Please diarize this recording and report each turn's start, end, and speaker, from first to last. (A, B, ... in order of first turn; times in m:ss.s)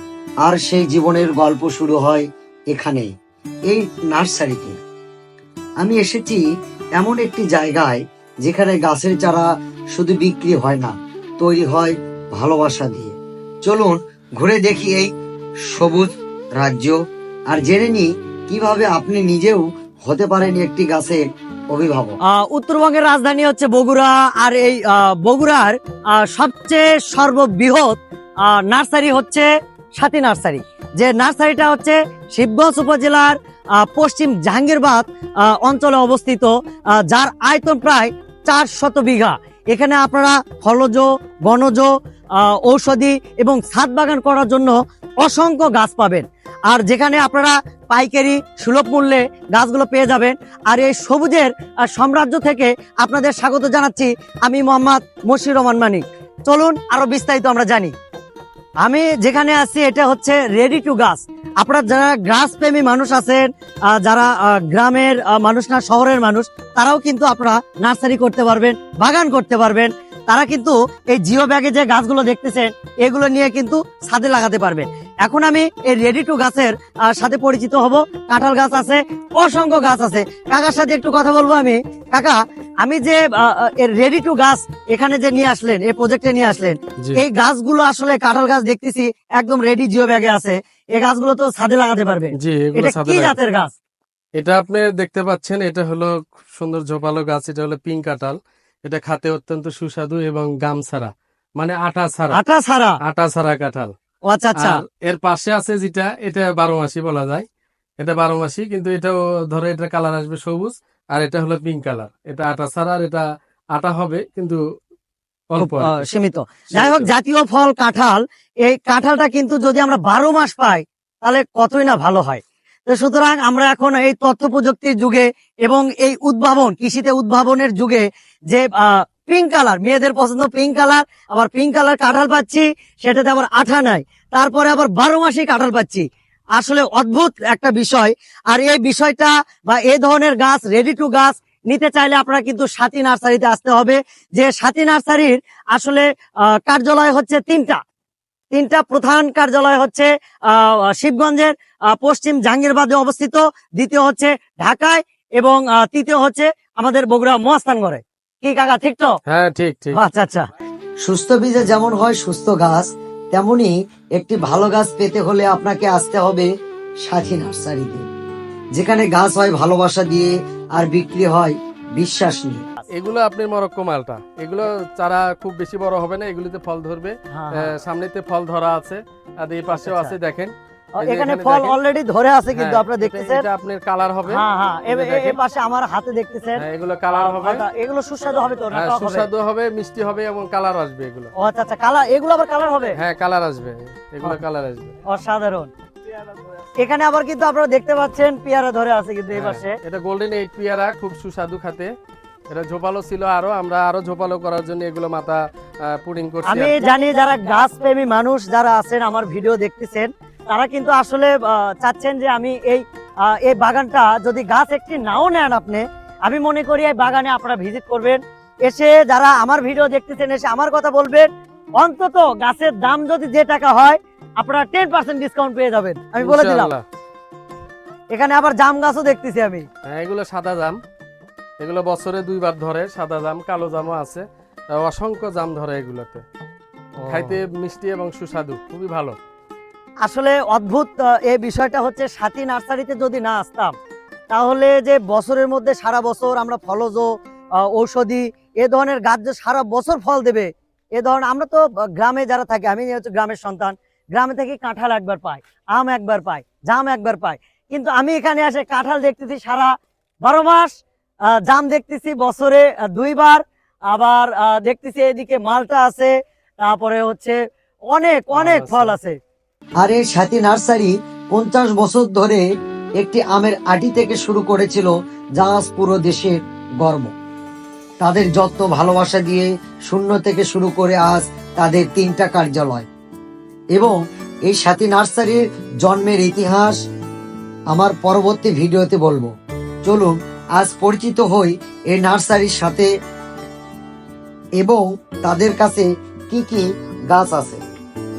0:00.4-0:03.1 A
0:03.7-0:04.8 A
0:05.8-0:06.4 A
0:07.0-0:15.1 A
0:15.7-0:17.0 A
0:17.5-0:22.2 A
0:22.4-0:41.9 B
0:42.4-0:57.9 B
0:58.8-1:33.7 B
1:32.4-1:33.4 C
1:34.4-1:42.4 C
1:42.4-1:43.0 B
1:43.0-1:43.9 C
1:44.3-1:44.8 B
1:44.6-1:47.4 C
1:48.0-1:54.6 C
1:55.5-1:56.1 C
1:55.6-2:16.1 B
1:56.7-1:57.1 C
2:16.6-2:27.8 B
2:28.5-2:39.1 B
2:39.3-2:40.0 C
2:40.0-2:40.5 B
2:41.0-2:46.5 A
2:47.0-2:48.0 A
2:48.8-2:52.7 A
2:52.9-3:01.8 C
2:57.3-2:57.7 B
2:59.8-3:00.2 B
3:01.0-3:03.4 B
3:02.5-3:05.4 C
3:04.4-3:06.6 B
3:06.6-3:07.6 C
3:07.2-3:09.2 B
3:08.7-3:11.3 C
3:11.4-3:12.9 B
3:13.0-3:15.0 C
3:15.1-3:15.7 B
3:16.8-3:19.7 B
3:19.3-3:21.9 C
3:22.5-3:26.8 C
3:26.4-3:46.7 B
3:46.2-3:46.8 C
3:48.1-3:49.6 B
3:49.8-3:50.8 C
3:51.6-3:56.2 C
3:57.1-3:59.2 C
4:00.0-4:03.7 B
4:04.3-4:07.1 B
4:07.6-4:19.7 B
4:20.2-4:20.7 B
4:21.4-4:23.4 B
4:23.9-4:27.4 B
4:27.9-4:29.2 B
4:28.3-4:29.0 C
4:29.8-4:32.4 A
4:33.0-4:37.1 A
4:38.0-4:42.9 A
4:43.8-4:46.8 A
4:47.7-4:49.3 A
4:49.8-4:52.9 A
4:54.6-4:57.6 A